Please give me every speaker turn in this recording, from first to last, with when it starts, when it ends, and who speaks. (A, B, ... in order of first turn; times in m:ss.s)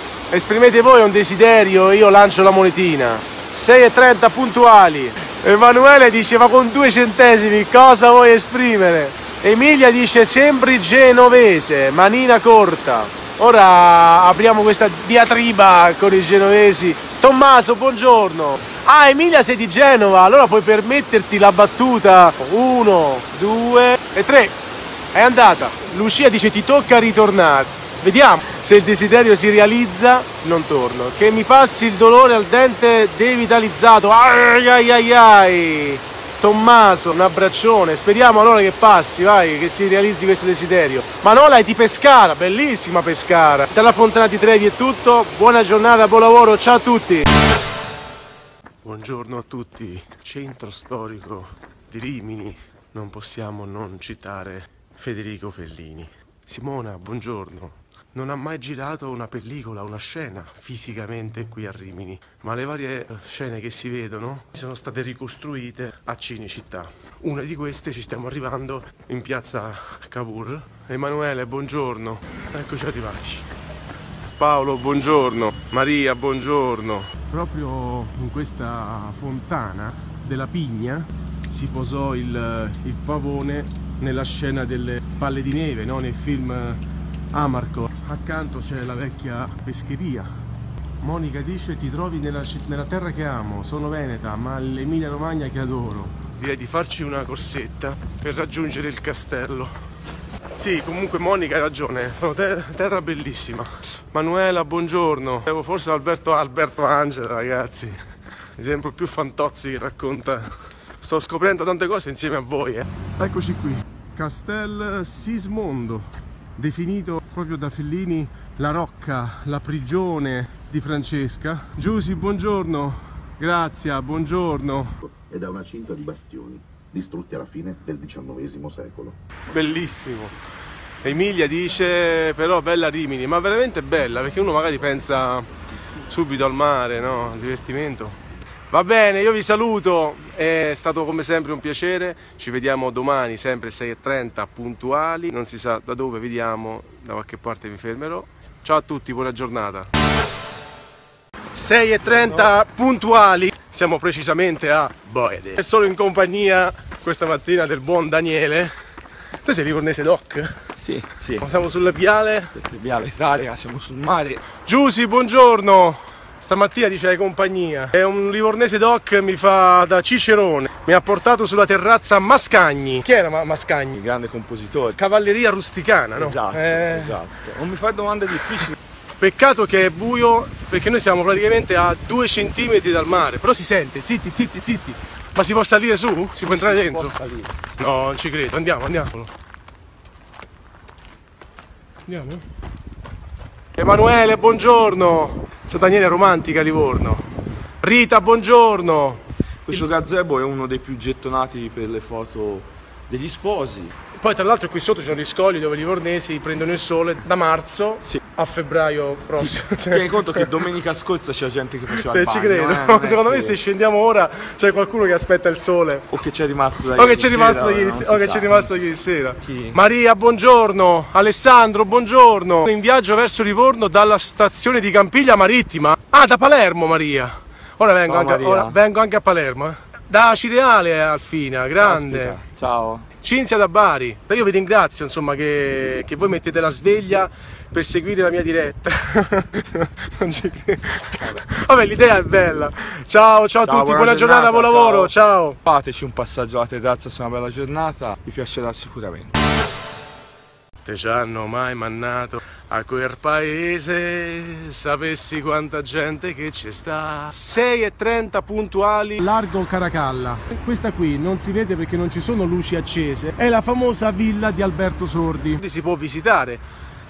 0:00.3-0:24.6 A
0:25.1-0:47.3 A
0:48.8-1:13.5 A
1:14.4-1:26.8 A
1:27.3-1:30.3 A
1:31.0-1:39.8 A
1:40.6-1:48.0 A
1:48.6-2:05.0 A
2:05.0-2:09.2 B
2:09.5-2:10.4 A
2:11.0-2:15.5 A
2:16.1-2:18.2 A
2:18.7-2:29.9 A
2:31.5-2:38.7 A
2:32.2-2:32.5 C
2:39.4-2:40.6 A
2:40.8-2:41.5 C
2:41.4-2:42.5 A
2:42.5-2:44.4 C
2:44.5-2:54.0 A
2:53.9-2:55.0 C
2:55.0-2:57.2 A
2:56.2-2:58.8 C
2:59.2-3:07.2 A
3:06.4-3:07.5 C
3:07.8-3:09.3 A
3:12.1-3:12.4 A
3:13.8-3:17.3 A
3:17.8-3:19.9 A
3:19.6-3:23.9 C
3:24.2-3:30.7 A
3:29.3-3:33.6 C
3:31.9-3:36.1 A
3:36.1-3:39.8 C
3:37.0-3:52.4 A
3:48.1-3:48.8 C
3:51.8-3:53.1 C
3:53.2-4:05.6 A
4:03.6-4:05.1 C
4:05.7-4:09.4 C
4:10.8-4:26.6 A